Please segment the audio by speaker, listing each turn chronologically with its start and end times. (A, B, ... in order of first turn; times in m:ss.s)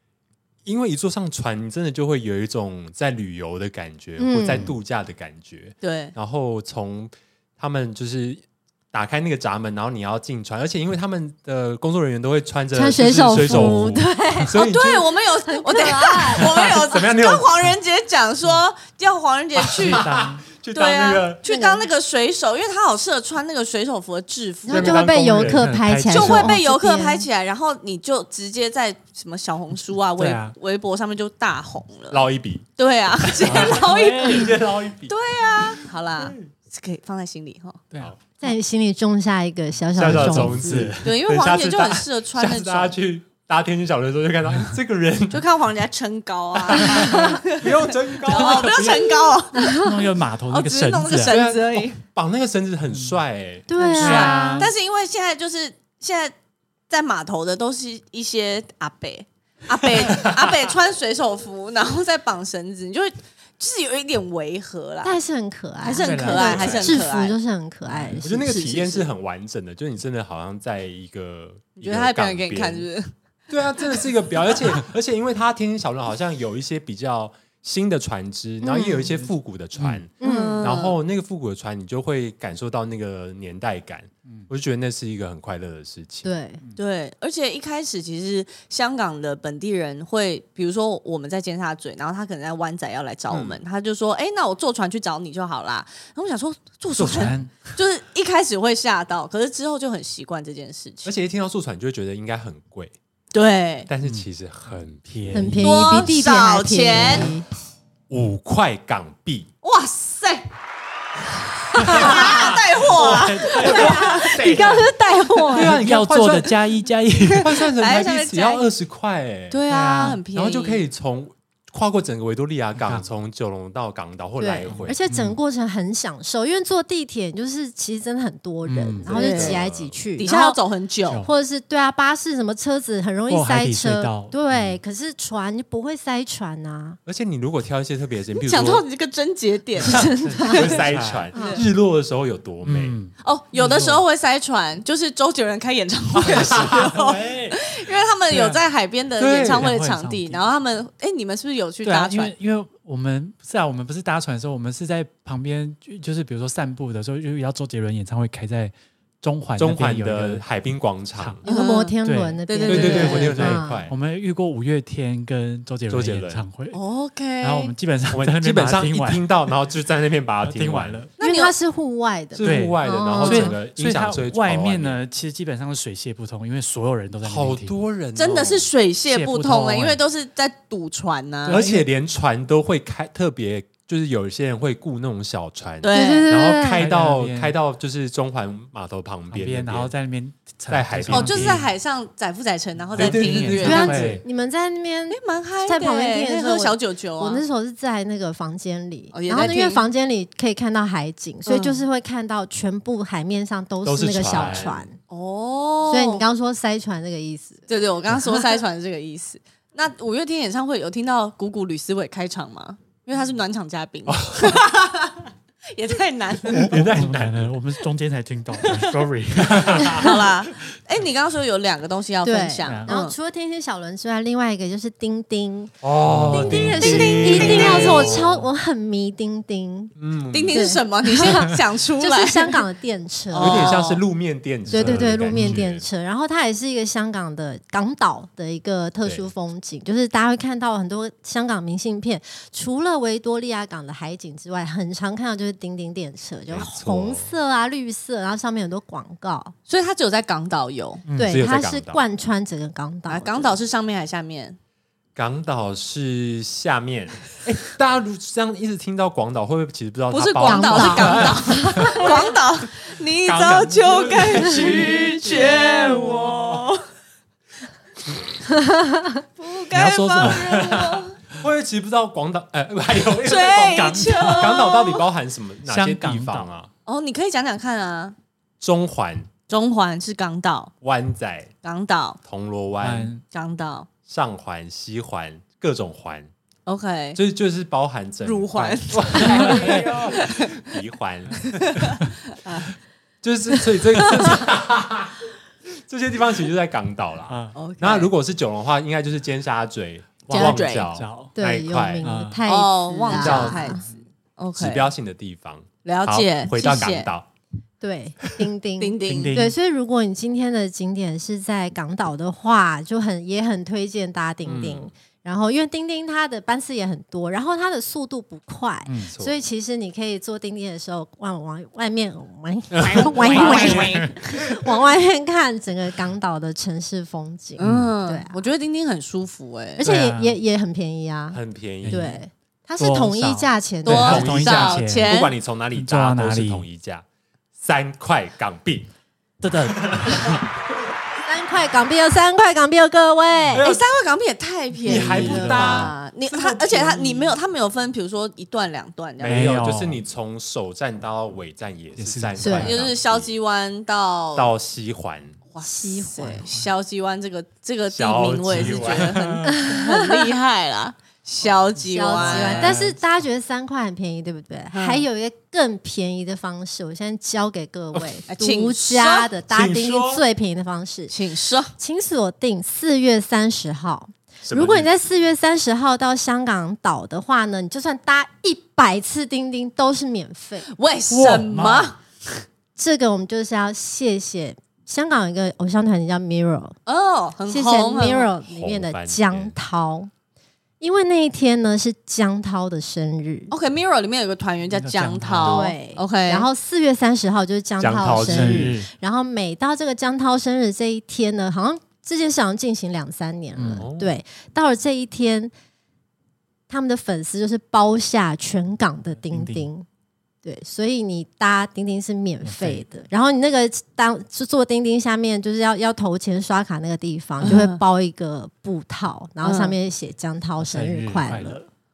0:00.6-0:15.1 A
0:04.2-0:04.7 B
0:05.8-0:06.1 C
0:12.7-0:14.6 B
0:13.3-0:13.9 D
0:14.5-0:20.0 C
0:15.4-0:16.7 B
0:16.4-0:17.6 A
0:19.6-0:21.4 A
0:19.8-0:20.4 D
0:20.7-0:25.0 C
0:21.4-0:21.8 B
0:24.6-0:27.2 B
0:24.7-0:25.7 A
0:25.4-0:26.5 D
0:26.1-0:32.2 C
0:30.2-0:30.5 D
0:32.1-0:35.8 A
0:32.8-0:34.6 C
0:33.4-0:34.5 D
0:35.1-0:37.8 C
0:38.4-0:40.9 B
0:40.0-0:45.4 A
0:40.0-0:41.1 D
0:41.0-0:42.9 C
0:45.3-0:49.9 C
0:46.6-0:49.4 A
0:46.8-0:47.4 B
0:49.6-0:50.0 B
0:49.7-0:51.4 D
0:50.5-0:52.0 C
0:51.2-0:54.3 A
0:53.7-0:54.7 B
0:53.8-0:56.3 C
0:53.9-0:54.7 D
0:56.9-1:05.2 C
1:00.0-1:00.6 A
1:05.0-1:08.7 B
1:05.8-1:07.4 C
1:06.0-1:06.8 D
1:06.5-1:06.8 A
1:07.9-1:08.2 D
1:08.2-1:12.9 A
1:08.4-1:09.1 C
1:11.8-1:13.1 C
1:13.5-1:26.3 A
1:18.6-1:19.2 B
1:19.8-1:20.0 D
1:20.2-1:20.6 B
1:20.2-1:21.0 C
1:26.2-1:26.6 B
1:26.8-1:41.1 C
1:33.3-1:33.6 A
1:37.0-1:37.7 D
1:37.0-1:37.3 A
1:41.0-1:42.9 A
1:43.3-1:43.9 C
1:43.9-1:45.8 A
1:45.0-1:45.7 D
1:45.3-1:47.4 B
1:45.6-1:47.3 C
1:48.1-1:49.5 A
1:49.6-1:50.5 C
1:51.7-1:54.4 C
1:51.8-1:54.9 A
1:51.8-1:52.4 B
1:52.8-1:54.0 D
1:53.6-1:55.8 B
1:55.5-1:56.6 A
1:55.5-1:57.5 D
1:57.3-1:59.6 A
1:57.4-1:58.6 C
1:59.5-2:00.8 C
1:59.7-2:00.2 D
2:00.3-2:05.0 A
2:02.8-2:03.1 D
2:04.4-2:10.6 B
2:04.7-2:05.4 D
2:08.6-2:09.4 D
2:09.1-2:09.6 C
2:09.2-2:10.0 A
2:10.2-2:11.2 C
2:11.0-2:11.3 D
2:11.2-2:17.0 B
2:13.3-2:14.8 D
2:17.0-2:18.8 A
2:18.4-2:20.1 C
2:19.8-2:20.7 B
2:19.9-2:23.0 A
2:19.9-2:21.3 D
2:21.3-2:21.6 C
2:21.3-2:21.6 B
2:22.6-2:24.0 D
2:23.2-2:32.3 C
2:26.2-2:26.9 A
2:26.3-2:27.6 D
2:28.3-2:28.6 D
2:29.2-2:29.7 A
2:29.4-2:30.4 D
2:31.8-2:40.4 D
2:39.6-2:41.4 A
2:41.2-2:41.4 D
2:41.4-2:42.0 C
2:41.4-2:43.8 B
2:42.0-2:46.8 D
2:42.5-2:43.5 C
2:42.7-2:43.9 A
2:45.9-2:46.4 A
2:46.7-2:47.7 C
2:47.4-2:49.3 D
2:48.1-2:51.0 A
2:50.4-2:51.1 D
2:51.2-2:51.5 C
2:51.2-2:53.6 B
2:52.3-2:55.0 A
2:52.4-2:57.8 D
2:57.2-2:58.7 A
2:58.1-3:01.6 C
2:59.0-3:00.0 D
3:01.4-3:01.8 D
3:01.5-3:09.9 A
3:05.8-3:06.3 C
3:05.9-3:06.8 B
3:06.7-3:07.5 D
3:09.3-3:11.7 D
3:10.7-3:11.6 A
3:11.1-3:14.1 C
3:12.9-3:14.2 D
3:13.0-3:14.2 A
3:13.6-3:25.0 B
3:15.1-3:17.4 C
3:19.1-3:19.8 C
3:21.4-3:21.8 C
3:23.8-3:24.9 A
3:25.1-3:26.2 C
3:25.9-3:28.2 B
3:27.7-3:36.9 C
3:34.1-3:34.7 A
3:36.5-3:37.6 A
3:36.7-3:40.1 D
3:38.6-3:39.0 C
3:39.4-3:40.2 A
3:39.6-3:43.1 C
3:42.2-3:45.8 B
3:42.6-3:42.9 D
3:45.8-3:48.2 A
3:46.1-3:46.9 D
3:46.3-3:48.2 C
3:46.3-3:49.9 B
3:47.4-3:48.4 D
3:50.0-3:50.7 A
3:50.3-3:52.6 C
3:50.5-3:53.8 B
3:53.3-3:54.0 C
3:53.4-3:55.8 A
3:54.7-3:55.6 D
3:54.7-4:09.5 B
4:06.5-4:07.3 A
4:09.7-4:11.0 C
4:11.1-4:11.4 D
4:11.2-4:13.6 B
4:11.2-4:12.0 A
4:13.1-4:14.6 C
4:15.2-4:22.3 A
4:20.1-4:26.8 C
4:20.4-4:22.4 B
4:23.2-4:26.5 A
4:28.5-4:29.2 B
4:29.4-4:31.1 C
4:29.7-4:30.7 D
4:30.3-4:36.7 A
4:33.2-4:35.0 C
4:33.7-4:34.6 D
4:35.6-4:36.5 D
4:36.8-4:38.1 C
4:38.6-4:39.3 A
4:39.5-4:40.7 C
4:40.8-4:41.5 A
4:41.6-4:42.2 C
4:42.2-4:43.1 A
4:42.8-4:43.2 D
4:43.3-4:43.9 C
4:44.0-4:46.3 A
4:46.6-4:47.2 C
4:47.1-4:51.7 A
4:48.2-4:50.6 C
4:49.2-4:49.8 D
4:51.5-4:52.7 C
4:53.2-5:02.1 A
4:53.9-4:54.4 C
4:57.3-4:57.6 D
4:57.5-4:58.1 C
5:00.3-5:00.9 C
5:00.3-5:01.3 D
5:01.4-5:03.8 B
5:02.0-5:02.4 D
5:02.5-5:04.9 C
5:03.1-5:03.8 A
5:04.6-5:07.3 A
5:05.8-5:07.1 C
5:07.8-5:28.4 B
5:08.8-5:09.4 C
5:09.0-5:09.6 D
5:14.4-5:14.9 A
5:18.8-5:19.1 D
5:19.1-5:19.4 A
5:22.7-5:24.3 A
5:22.9-5:24.2 C
5:23.5-5:24.1 D
5:27.6-5:29.8 C
5:27.6-5:27.9 D
5:29.8-5:34.3 B
5:29.8-5:30.4 D
5:31.3-5:32.1 A
5:31.8-5:32.2 D
5:32.8-5:35.1 D
5:33.8-5:35.3 C
5:34.0-5:37.0 A
5:35.7-5:36.6 D
5:37.6-5:38.9 A
5:39.4-5:40.4 D
5:39.9-5:40.3 A
5:41.2-5:43.6 B
5:43.5-5:43.8 A
5:43.5-5:49.4 C
5:44.8-5:47.3 A
5:44.8-5:45.9 D
5:49.2-5:53.3 A
5:49.2-5:50.0 D
5:52.0-5:52.8 D
5:52.4-5:52.7 B
5:52.6-5:54.5 C
5:54.3-5:55.4 A
5:55.5-6:02.8 C
5:55.6-5:56.4 B
5:56.3-5:56.6 D
5:57.9-5:59.3 A
5:58.5-5:59.6 D
5:59.5-6:00.3 B
6:01.8-6:11.1 B
6:02.1-6:03.0 D
6:04.7-6:05.0 C
6:08.3-6:09.3 C
6:09.5-6:10.2 A
6:11.1-6:11.7 C
6:11.8-6:20.7 B
6:14.4-6:14.9 A
6:20.7-6:22.0 C
6:21.1-6:21.9 D
6:22.8-6:26.8 B
6:26.8-6:28.3 C
6:27.5-6:30.1 B
6:28.4-6:29.5 A
6:30.8-6:33.5 B
6:33.5-6:36.5 C
6:34.7-6:35.7 D
6:35.4-6:45.5 B
6:37.8-6:38.8 A
6:38.2-6:38.9 D
6:43.5-6:43.8 D
6:43.8-6:44.2 A
6:46.7-6:49.8 B
6:49.2-6:49.7 D
6:50.4-7:01.6 B
6:52.4-6:52.8 D
6:57.4-6:57.8 C
6:59.4-6:59.8 C
7:00.6-7:01.7 D